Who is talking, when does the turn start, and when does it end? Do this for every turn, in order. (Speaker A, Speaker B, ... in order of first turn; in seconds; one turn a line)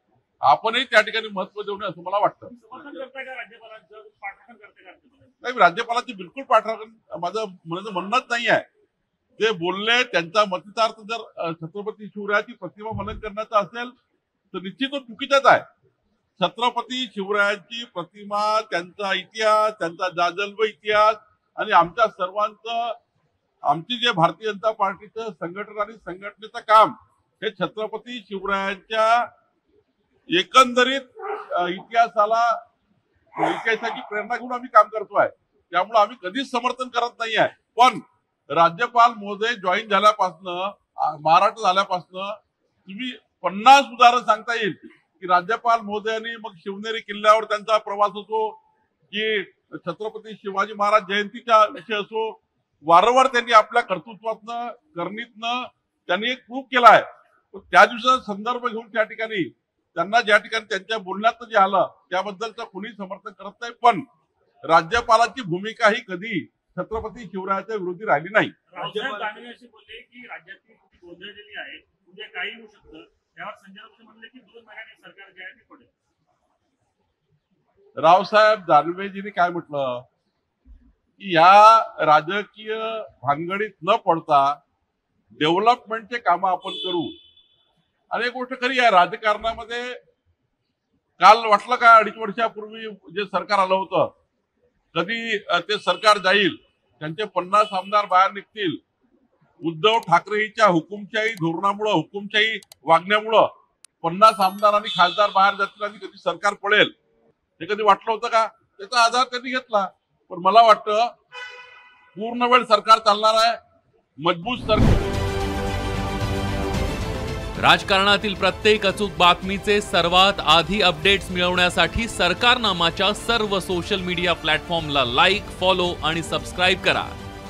Speaker A: 0.5-3.0
Speaker B: 2.5-5.3
Speaker A: 5.4-8.6
Speaker A: 9.4-13.9
Speaker A: 14.5-15.6
Speaker A: 16.4-22.9
Speaker A: 23.7-29.2
Speaker A: 30.3-32.6
Speaker A: 33.4-48.6
Speaker A: 49.1-64.0
Speaker A: 64.7-69.3
Speaker B: 68.7-75.9
Speaker A: 78.0-80.0
Speaker A: 81.2-84.5
Speaker A: 85.4-87.1
Speaker A: 88.1-89.9
Speaker A: 91.2-94.1
Speaker A: 94.9-98.8
Speaker A: 99.6-103.5
Speaker A: 104.0-106.9
Speaker A: 107.6-111.1
Speaker A: 112.1-113.6
Speaker A: 114.2-115.2
Speaker C: 117.6-127.2